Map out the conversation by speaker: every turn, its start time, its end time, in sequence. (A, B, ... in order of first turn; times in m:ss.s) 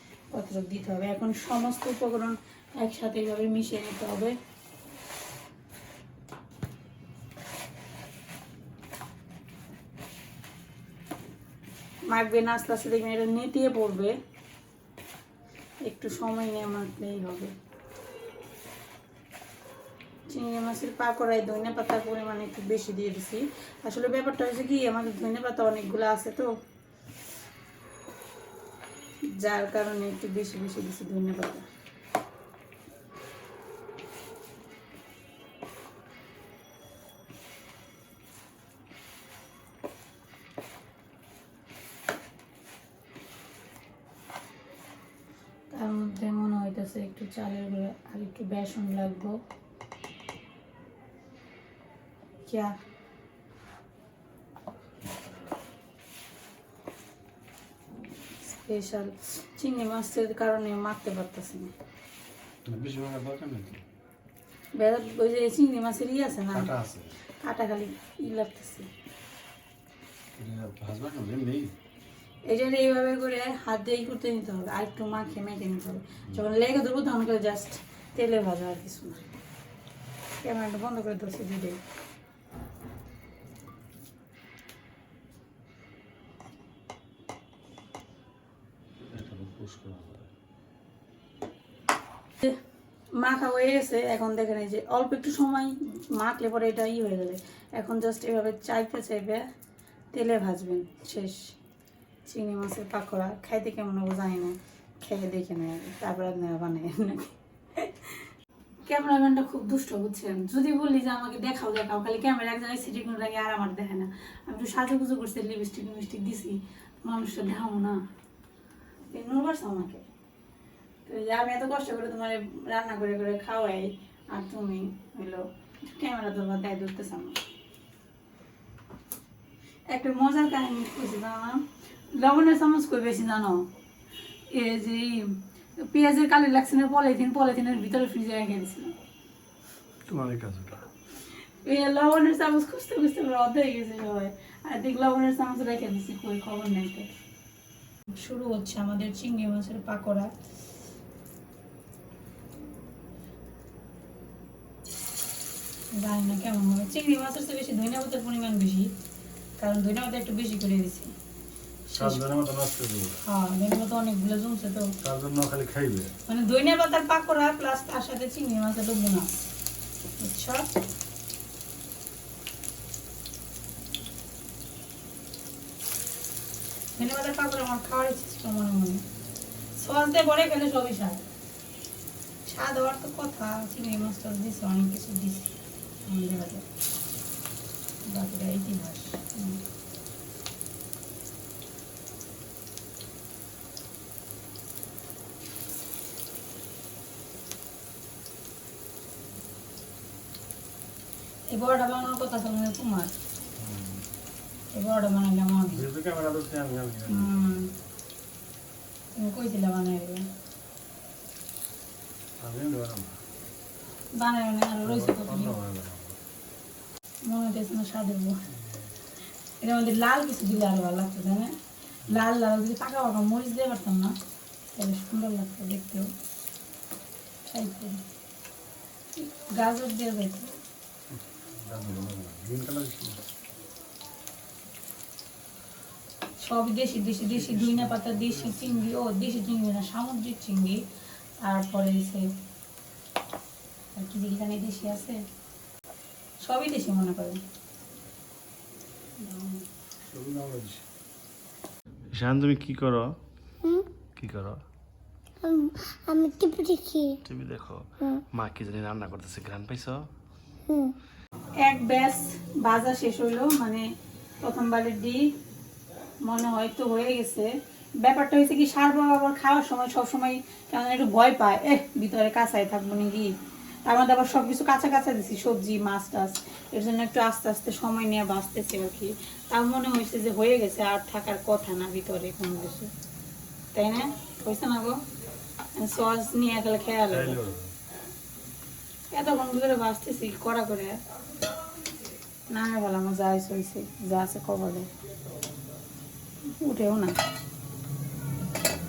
0:00.3-0:04.4 A
0:12.1-0:14.2 A
0:15.8-0:17.5 A
0:20.3-0:26.5 A
0:29.4-0:31.7 A
0:45.7-0:49.4 A
0:52.5-0:52.8 A
0:58.4-1:01.7 A
1:02.6-1:03.8 B
1:04.8-1:06.7 A
1:06.5-1:07.1 B
1:07.4-1:08.9 A
1:10.4-1:11.7 B
1:12.5-1:19.3 A
1:20.4-1:21.8 A
1:29.1-1:30.3 B
1:33.2-1:39.4 A
1:40.1-1:41.5 A
1:42.3-1:48.2 A
1:48.9-1:58.0 A
1:59.1-2:00.0 A
2:01.0-2:07.4 A
2:09.9-2:11.6 A
2:12.1-2:13.7 A
2:14.5-2:18.9 A
2:20.1-2:20.8 B
2:21.6-2:27.2 A
2:28.1-2:30.3 A
2:35.9-2:38.9 A
2:39.6-2:41.1 A
2:41.9-2:42.2 A
2:42.0-2:43.2 B
2:43.2-2:44.9 A
2:45.0-2:46.1 B
2:46.3-2:49.5 A
2:50.2-2:50.6 A
2:57.0-2:59.0 A
2:59.8-3:01.3 A
3:02.5-3:05.5 A
3:06.1-3:06.6 A
3:08.1-3:09.6 A
3:21.5-3:23.1 A
3:23.6-3:24.0 B
3:24.7-3:25.9 A
3:25.7-3:27.6 B
3:27.1-3:27.7 A
3:29.2-3:30.3 A
3:32.4-3:33.2 B
3:34.1-3:35.6 A
3:34.8-3:36.2 B
3:37.2-3:38.4 A
3:39.6-3:41.5 A
3:42.1-3:44.1 A
3:44.8-3:46.1 A
3:47.5-3:48.0 A
3:49.2-3:50.5 A
3:51.1-3:53.2 B
3:56.4-4:00.8 A
3:57.3-3:58.8 B
4:01.4-4:02.2 A
4:04.0-4:05.2 A
4:06.4-4:07.4 A
4:09.2-4:09.6 A
4:10.1-4:10.8 B
4:12.1-4:13.1 B
4:14.2-4:14.6 B
4:15.4-4:17.2 C
4:17.2-4:20.1 B
4:20.7-4:20.9 C
4:21.6-4:23.9 A
4:24.4-4:25.2 A
4:26.2-4:27.5 A
4:28.0-4:33.3 A
4:33.9-4:42.9 A
4:43.7-4:45.0 A
4:45.8-4:47.4 A
4:47.1-4:47.7 B
4:49.1-4:51.0 A
4:52.5-4:54.9 A
4:56.6-4:57.2 A